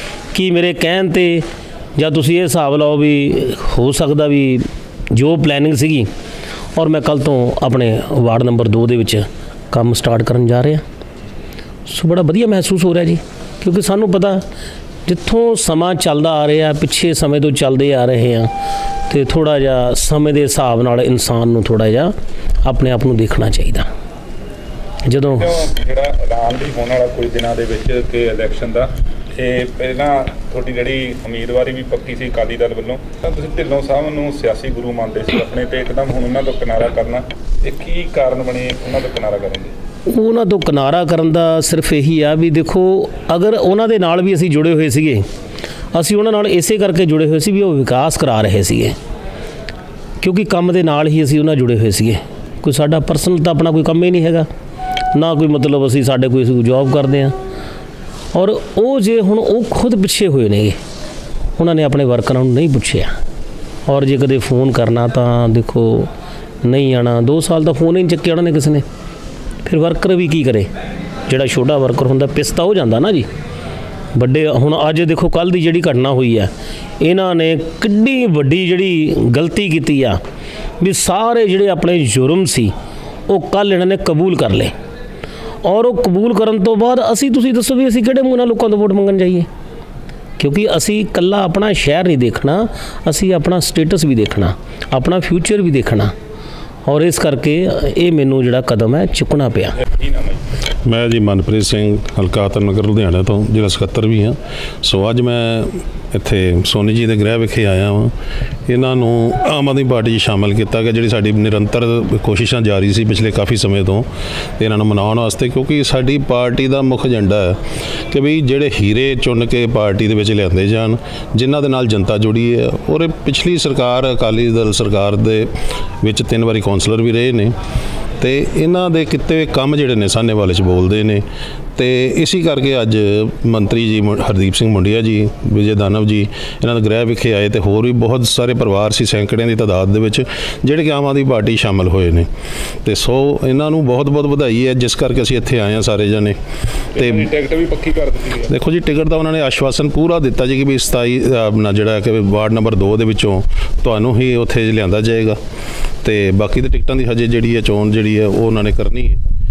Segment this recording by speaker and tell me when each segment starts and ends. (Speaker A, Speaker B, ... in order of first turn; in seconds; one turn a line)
Speaker A: 0.3-1.4
Speaker A: 2.0-6.1
Speaker A: 6.8-10.8
Speaker A: 11.9-14.4
Speaker A: 15.1-18.5
Speaker A: 19.1-22.1
Speaker A: 22.6-23.9
Speaker A: 25.1-25.5
Speaker B: 25.3-39.7
Speaker A: 40.1-45.2
Speaker A: 45.9-49.0
Speaker A: 50.2-54.5
Speaker A: 55.1-57.4
Speaker A: 58.3-60.8
Speaker A: 61.6-63.1
Speaker A: 63.9-66.1
Speaker A: 66.6-68.8
Speaker A: 69.6-70.7
Speaker A: 71.3-73.3
Speaker A: 74.1-80.2
Speaker A: 80.8-82.7
Speaker A: 83.3-84.7
Speaker A: 85.6-89.5
Speaker A: 90.4-96.1
Speaker A: 96.9-99.8
Speaker B: 99.9-100.4
Speaker C: 100.8-108.1
Speaker C: 108.7-114.1
Speaker C: 114.6-117.6
Speaker C: 118.1-125.5
Speaker C: 126.0-127.5
Speaker C: 128.2-131.2
Speaker C: 131.8-142.3
Speaker C: 142.8-146.4
Speaker C: 147.0-147.3
Speaker B: 147.0-148.5
Speaker C: 148.5-155.4
Speaker C: 156.0-159.2